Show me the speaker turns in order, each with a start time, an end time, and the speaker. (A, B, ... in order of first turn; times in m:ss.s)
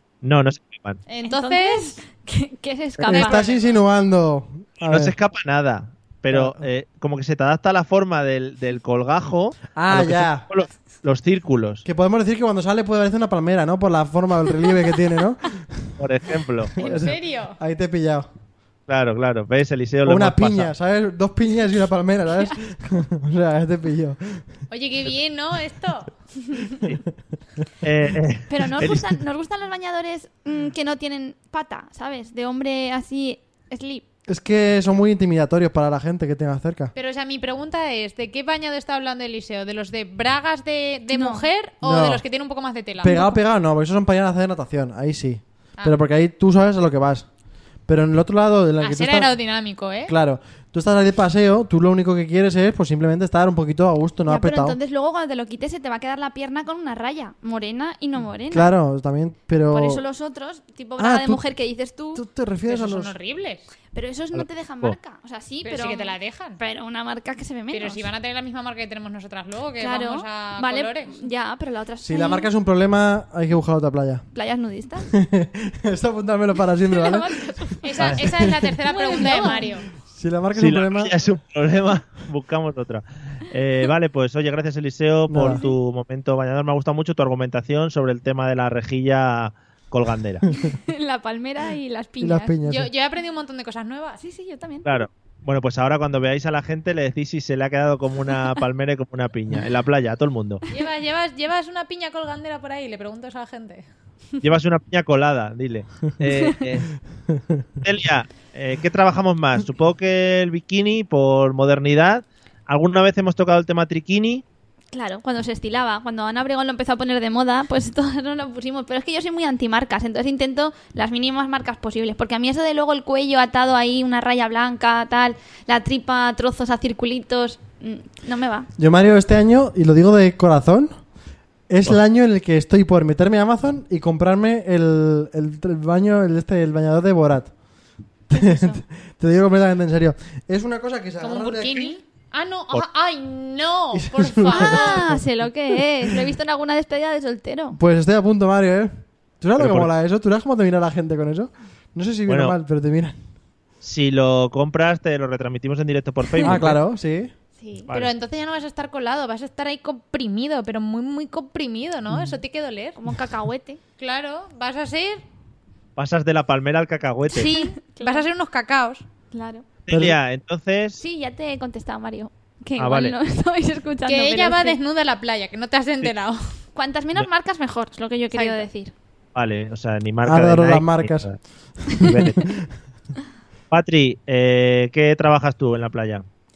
0:00.2-0:01.0 A
0:01.1-0:02.0 B
0:01.2-0:03.4 C
0:03.0-0:05.1 D
0:03.1-0:03.8 B
0:04.8-0:11.8 A
0:06.3-0:06.6 D
0:09.7-0:10.4 D
0:11.8-0:15.9 D
0:16.0-0:17.0 A
0:16.8-0:18.3 D
0:16.8-0:17.6 B
0:18.9-0:20.7 A
0:20.0-0:24.4 D
0:24.7-0:26.1 B
0:27.8-0:29.1 A
0:28.5-0:34.0 C
0:34.3-0:36.9 D
0:36.9-0:43.2 B
0:41.1-0:41.4 C
0:41.8-0:42.2 D
0:43.0-0:47.3 D
0:43.0-0:43.4 C
0:47.9-0:49.3 D
0:48.8-0:50.1 B
0:50.0-0:54.8 D
0:54.3-0:58.7 C
0:58.5-1:00.0 D
0:59.7-1:02.2 C
1:01.0-1:01.4 D
1:02.1-1:03.1 D
1:02.7-1:03.7 B
1:03.9-1:08.1 C
1:04.3-1:05.0 A
1:05.6-1:06.6 B
1:07.7-1:11.2 B
1:09.8-1:12.5 C
1:12.0-1:14.2 D
1:14.3-1:15.1 C
1:15.1-1:17.5 D
1:16.9-1:18.1 C
1:17.8-1:19.9 B
1:18.1-1:18.7 D
1:18.8-1:19.7 C
1:19.4-1:21.2 D
1:20.5-1:30.4 A
1:25.3-1:25.6 D
1:30.6-1:32.6 C
1:32.2-1:32.9 D
1:32.6-1:34.2 B
1:34.2-1:34.9 C
1:34.8-1:40.6 A
1:40.7-1:43.8 B
1:44.4-1:46.9 A
1:47.3-1:47.6 D
1:47.8-1:54.4 A
1:54.9-2:08.7 C
2:08.8-2:11.0 D
2:11.7-2:17.5 D
2:18.3-2:22.0 D
2:18.3-2:18.8 C
2:21.2-2:25.0 B
2:23.9-2:25.2 D
2:24.5-2:27.8 C
2:27.8-2:33.2 D
2:29.6-2:29.9 A
2:32.3-2:32.5 A
2:33.8-2:36.8 A
2:36.4-2:37.3 D
2:37.6-2:37.9 C
2:37.9-2:43.0 B
2:43.0-2:43.8 C
2:44.0-2:45.2 B
2:46.0-2:47.5 A
2:47.3-2:49.0 B
2:47.4-2:48.2 C
2:49.3-2:49.6 C
2:49.9-2:51.0 A
2:49.9-2:50.2 D
2:51.0-2:54.8 C
2:52.8-2:53.2 A
2:54.0-2:56.6 B
2:56.7-2:58.9 C
2:58.3-2:58.6 B
2:59.3-3:01.4 A
3:00.2-3:01.3 D
3:01.9-3:02.4 A
3:01.9-3:02.7 D
3:03.7-3:06.2 A